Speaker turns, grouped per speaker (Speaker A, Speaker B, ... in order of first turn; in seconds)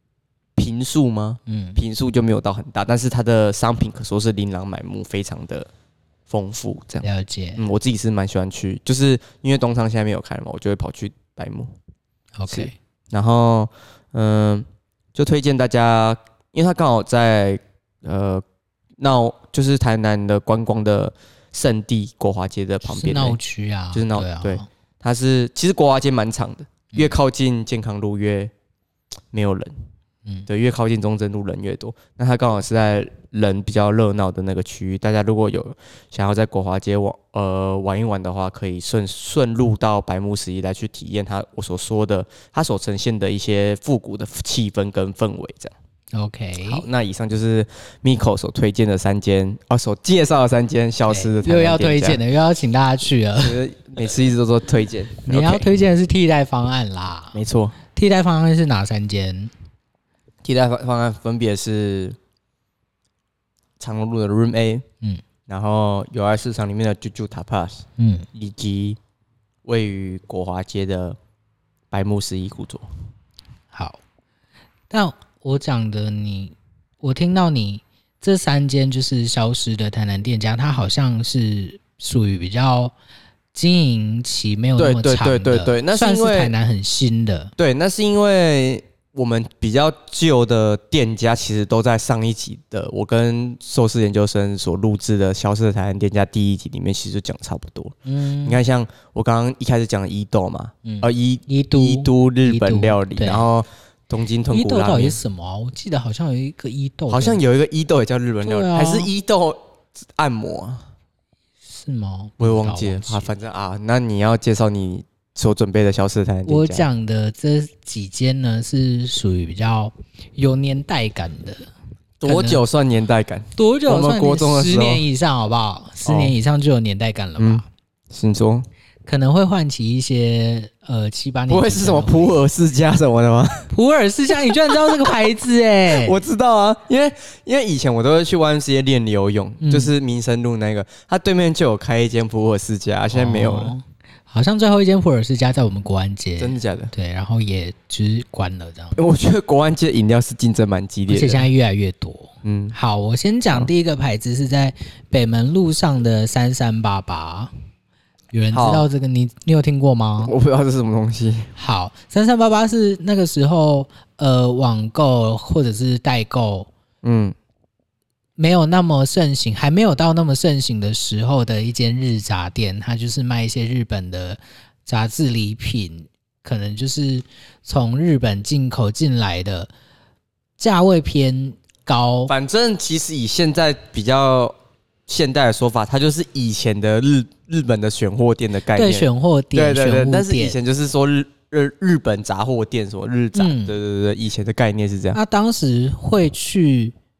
Speaker A: 0.6-5.7, 6.3-7.1, 7.6-11.7, 12.5-18.4, 19.0-23.4, 23.9-28.5, 29.3-29.7, 30.5-45.7, 46.6-52.2, 53.4-55.7, 57.3-57.8, 60.4-62.2, 63.8-64.8, 65.5-69.0, 69.7-71.2, 71.9-72.9, 84.8-86.5, 87.6-105.2, 107.1-110.9, 112.4-116.9, 122.2-125.0, 126.0-126.3, 127.4-128.7, 131.5-133.7, 134.5-135.1, 135.9-143.7, 146.4-146.9, 149.0-151.5, 152.4-152.8, 158.5-158.9, 160.2-161.5, 167.0-167.3, 182.3-184.6, 185.1-195.2
Speaker B: 1.5-1.8, 7.0-7.6, 12.4-12.8, 22.8-24.7, 46.1-46.9, 51.1-53.6, 55.2-57.4, 57.9-59.5, 68.0-68.3, 73.7-74.0, 74.9-82.9, 83.5-87.5, 98.0-98.6, 100.8-103.5, 104.5-107.4, 108.4-109.1, 111.7-113.3, 116.5-121.7, 122.2-122.6, 123.6-127.7, 129.1-132.4, 133.7-136.2, 139.6-139.9, 143.1-149.0, 151.1-157.5, 158.3-160.3, 161.6-166.7, 168.4-179.7, 180.6-182.3, 188.7-190.6, 193.3-193.8, 195.1-196.9